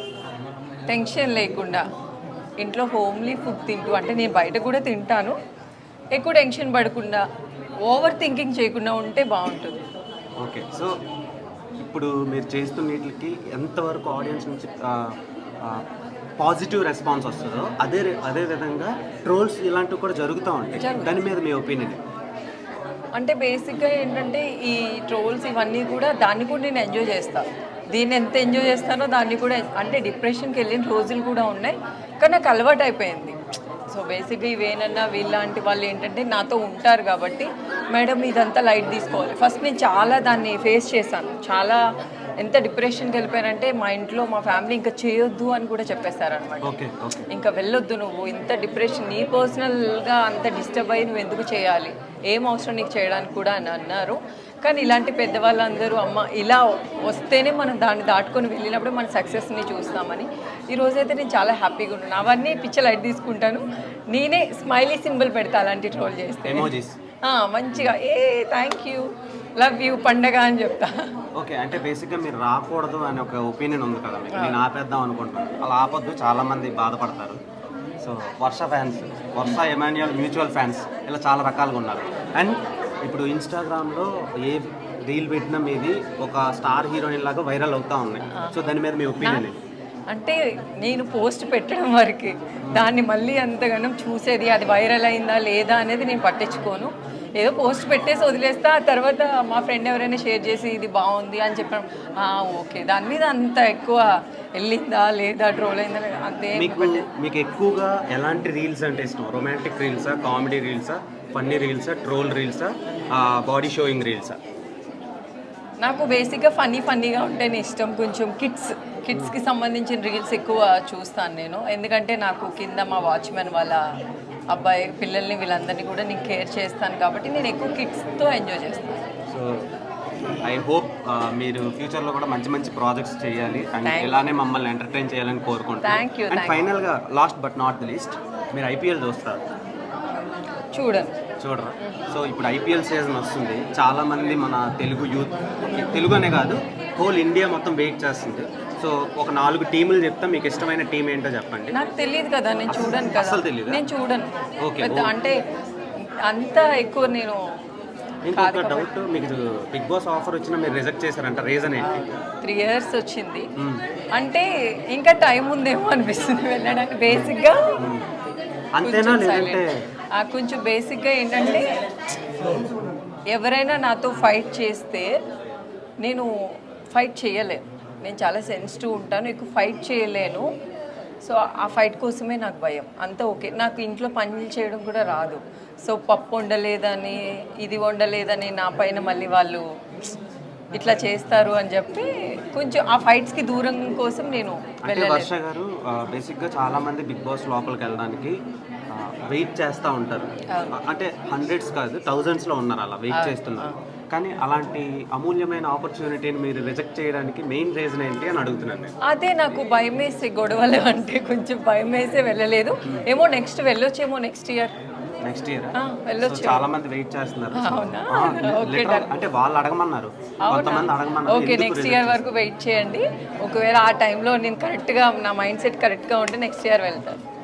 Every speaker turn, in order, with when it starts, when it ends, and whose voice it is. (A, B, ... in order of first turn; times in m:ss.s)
0:00.9-0:01.8 A
0:02.6-0:05.4 A
0:06.1-0:07.3 A
0:07.9-0:09.8 A
0:10.4-0:11.0 B
0:11.8-0:15.8 B
0:16.4-0:22.0 B
0:20.8-0:21.2 A
0:23.2-0:41.8 A
0:42.4-0:46.7 A
0:46.6-0:47.3 B
0:47.3-1:06.7 A
1:06.4-1:07.0 B
1:07.2-1:11.1 A
1:11.4-1:17.4 B
1:14.3-1:14.6 A
1:18.0-1:29.6 B
1:29.2-1:29.4 A
1:30.1-1:47.1 A
1:46.6-1:54.4 B
1:55.8-2:03.8 A
2:04.5-2:09.0 A
2:09.3-2:09.7 B
2:10.4-2:19.4 B
2:13.8-2:14.2 A
2:15.8-2:16.7 A
2:20.7-2:21.2 A
2:21.4-2:31.8 B
2:31.7-2:35.4 A
2:32.7-2:33.8 B
2:34.6-2:35.1 B
2:36.2-2:37.4 A
2:38.2-2:41.9 B
2:38.3-2:38.9 A
2:41.8-2:43.5 A
2:43.6-2:43.8 B
2:44.2-2:47.8 A
2:47.1-2:48.0 B
2:48.8-2:49.8 B
2:48.8-2:49.6 A
2:50.2-2:51.8 A
2:53.3-2:55.1 A
2:56.0-2:56.3 A
2:56.9-3:00.5 A
3:01.2-3:09.7 A
3:10.7-3:15.3 A
3:14.8-3:18.4 B
3:18.9-3:28.9 B
3:20.5-3:20.8 A
3:23.1-3:23.8 A
3:29.1-3:34.8 A
3:35.3-3:42.3 B
3:35.8-3:36.7 A
3:37.5-3:39.2 A
3:40.5-3:47.2 A